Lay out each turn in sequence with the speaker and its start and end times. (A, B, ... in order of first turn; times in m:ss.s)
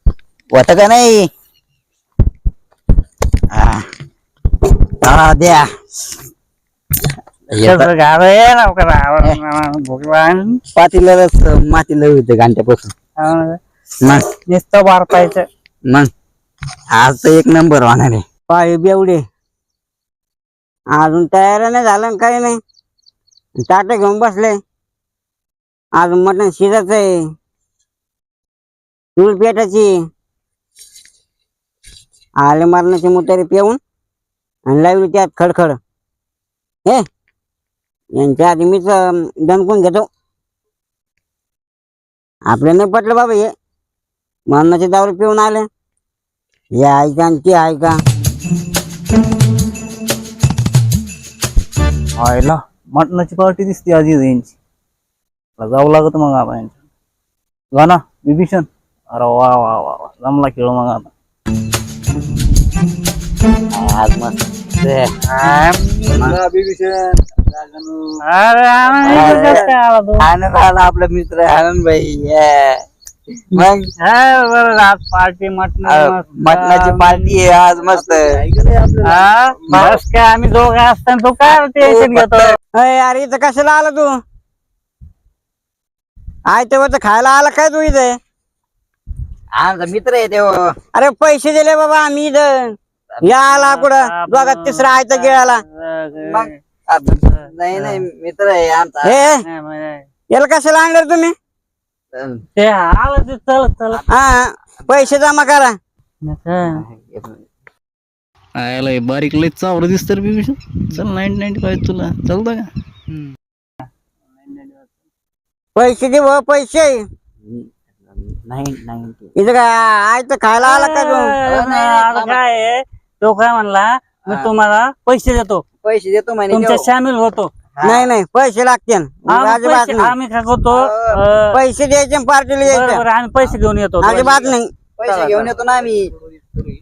0:00.5-0:01.3 A
0:03.5-0:03.9 A
0:05.0-0:05.7 A
0:07.5-0:07.9 A
0:07.6-0:10.6 B
0:10.7-0:12.9 A
0:13.2-0:15.4 B
0:16.9-0:18.2 A
0:18.5-0:19.2 C
0:21.0-0:22.6 C
0:23.6-0:24.6 C
0:26.0-0:27.2 C
0:29.2-0:29.9 C
0:32.4-0:33.8 C
0:34.7-0:35.8 C
0:38.2-0:40.1 C
0:42.5-0:43.5 C
0:44.5-0:45.6 C
0:46.8-0:48.0 C
0:52.2-0:54.5 D
0:55.6-0:56.8 D
0:57.7-1:01.1 D
1:03.7-1:05.1 A
1:05.3-1:06.3 B
1:06.1-1:08.2 D
1:06.1-1:06.4 A
1:08.2-1:10.2 B
1:08.9-1:09.5 D
1:09.0-1:12.8 A
1:13.5-1:13.9 A
1:13.6-1:17.3 B
1:15.8-1:19.1 A
1:17.9-1:18.9 D
1:19.0-1:22.6 B
1:19.7-1:20.0 A
1:21.8-1:22.5 A
1:22.7-1:24.2 C
1:26.5-1:28.2 C
1:29.6-1:30.6 A
1:30.9-1:35.6 C
1:33.5-1:36.6 B
1:36.2-1:39.3 A
1:37.1-1:38.0 B
1:39.0-1:39.4 C
1:39.4-1:40.0 B
1:40.3-1:41.3 C
1:42.1-1:42.4 A
1:42.6-1:44.0 B
1:44.1-1:45.7 C
1:46.2-1:46.8 B
1:46.7-1:47.4 A
1:48.6-1:52.7 D
1:55.8-1:57.0 C
1:57.4-1:59.3 A
1:59.4-2:01.3 C
2:00.6-2:05.6 B
2:01.5-2:02.4 A
2:05.8-2:06.9 A
2:06.5-2:07.5 B
2:07.8-2:08.1 A
2:07.8-2:10.1 C
2:09.3-2:11.6 B
2:10.7-2:11.2 A
2:11.5-2:13.0 C
2:12.6-2:14.5 B
2:14.0-2:14.7 C
2:15.0-2:16.1 A
2:15.3-2:15.6 D